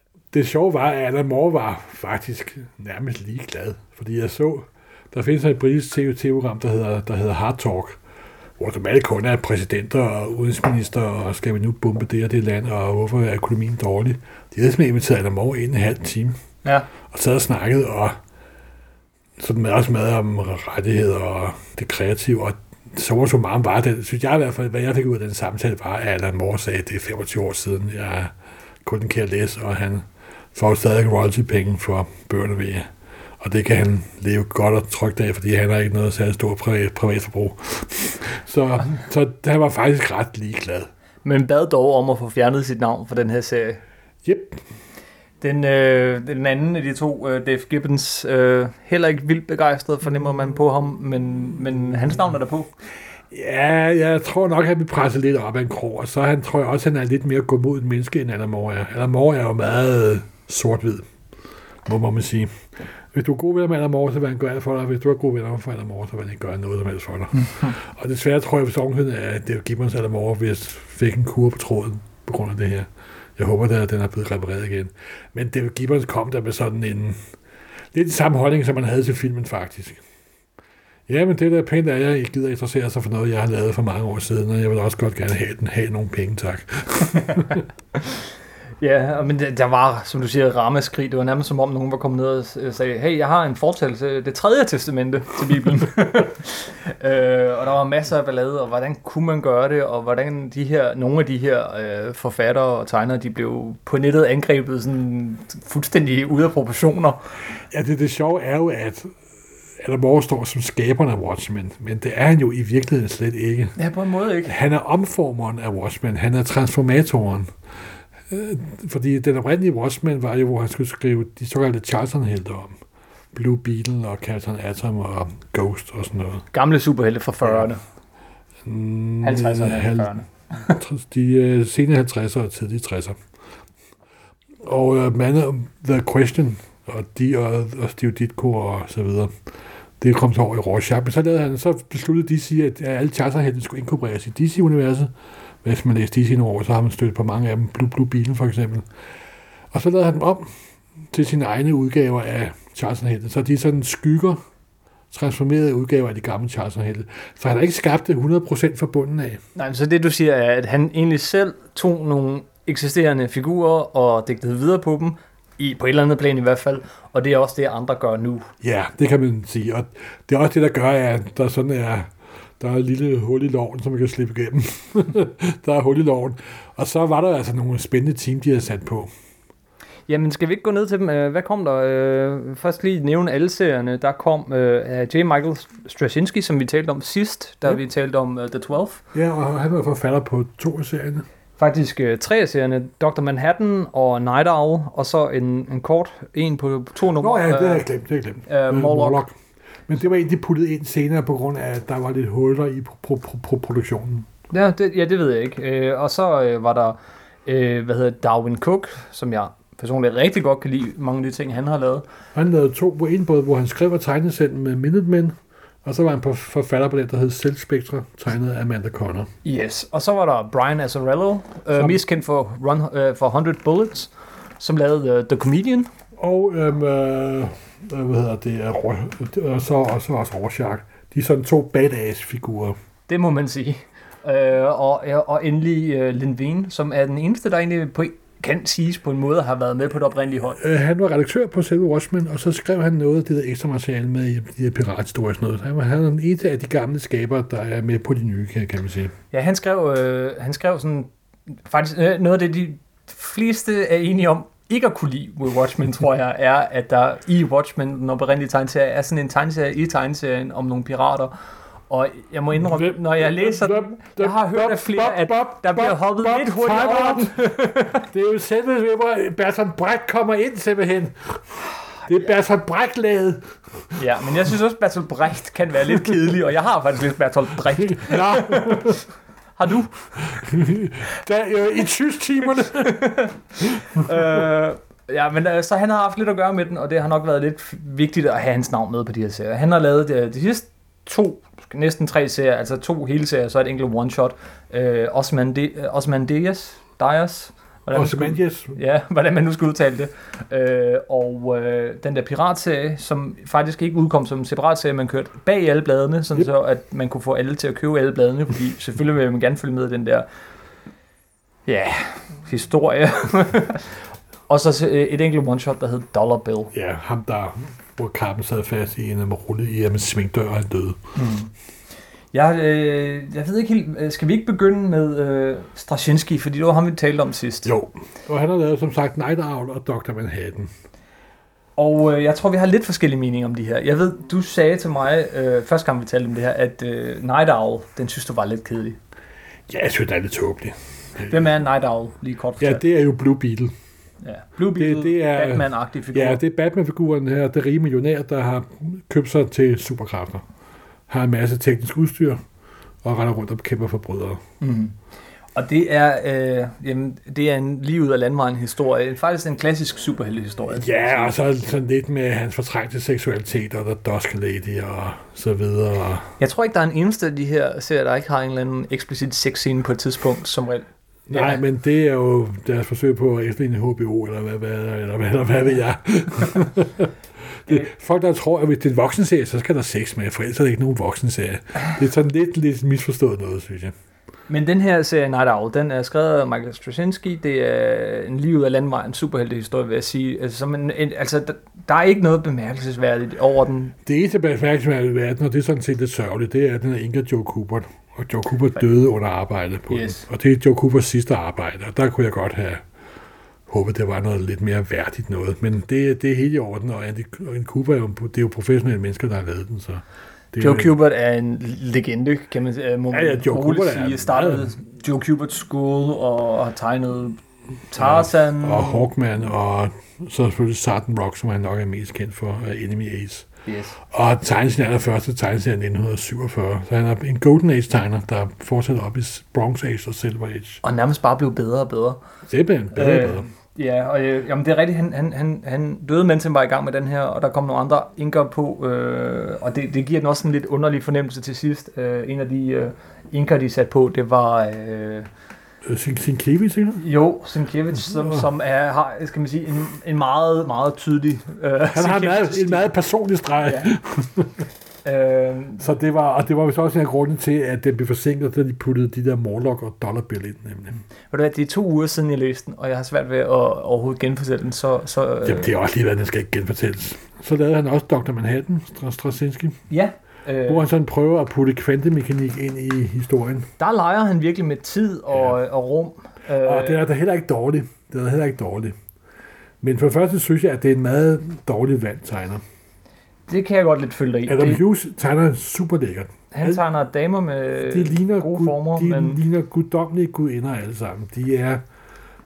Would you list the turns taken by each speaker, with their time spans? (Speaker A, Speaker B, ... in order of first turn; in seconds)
Speaker A: 0.3-8.0, 8.6-16.4, 17.1-18.2, 19.4-32.9, 33.4-40.9, 44.2-44.6, 53.3-61.0, 61.9-62.5, 63.1-77.2, 77.9-80.0, 81.1-87.6, 107.7-109.1, 109.8-113.8, 114.5-117.5, 118.3-122.7, 123.3-126.5, 128.6-130.1, 130.7-133.2, 134.6-139.3, 140.0-145.1, 145.6-148.9, 149.7-150.5, 151.1-154.4, 155.1-159.4, 168.6-172.1, 172.6-179.1, 189.1-191.2, 197.2-199.3, 199.9-204.3, 212.3-219.3, 226.2-232.8, 240.6-249.1, 262.6-267.4, 267.9-271.4, 272.1-273.4, 277.9-279.0, 280.2-283.0, 297.9-298.7, 316.7-321.0, 327.6-330.7, 339.7-341.4, 342.6-343.7, 344.7-350.4, 351.1-352.4, 353.0-354.4, 360.7-366.3, 371.3-377.1, 377.6-383.9, 394.1-402.8, 403.7-411.0, 413.1-414.7, 418.0-423.5, 424.1-430.8, 432.5-433.4, 445.8-447.0, 448.1-448.4, 451.9-454.6, 455.8-461.0, 465.4-469.8, 470.7-473.7, 476.6-478.9, 479.8-482.6, 484.4-486.8, 487.9-491.8
Speaker B: 41.2-43.8, 45.4-52.7, 67.4-67.7, 88.8-107.2, 113.8-114.5, 126.5-127.8, 129.2-130.8, 159.6-168.5, 180.1-189.0, 191.6-197.8, 198.5-199.2, 204.5-212.0, 219.4-225.9, 233.1-240.6, 249.3-251.1, 251.7-261.3, 261.9-268.1, 274.0-279.0, 279.6-280.1, 282.6-310.2, 311.7-316.7, 321.1-321.5, 322.3-327.7, 331.8-339.0, 341.2-342.8, 344.2-346.4, 354.6-354.9, 355.5-361.3, 366.4-371.6, 384.5-393.9, 399.9-400.2, 410.6-419.1, 423.6-424.0, 430.8-432.2, 432.9-445.3, 447.0-452.9, 453.6-453.9, 455.0-455.8, 461.3-465.7, 469.9-470.8, 473.8-477.0, 483.5-484.8, 486.5-489.4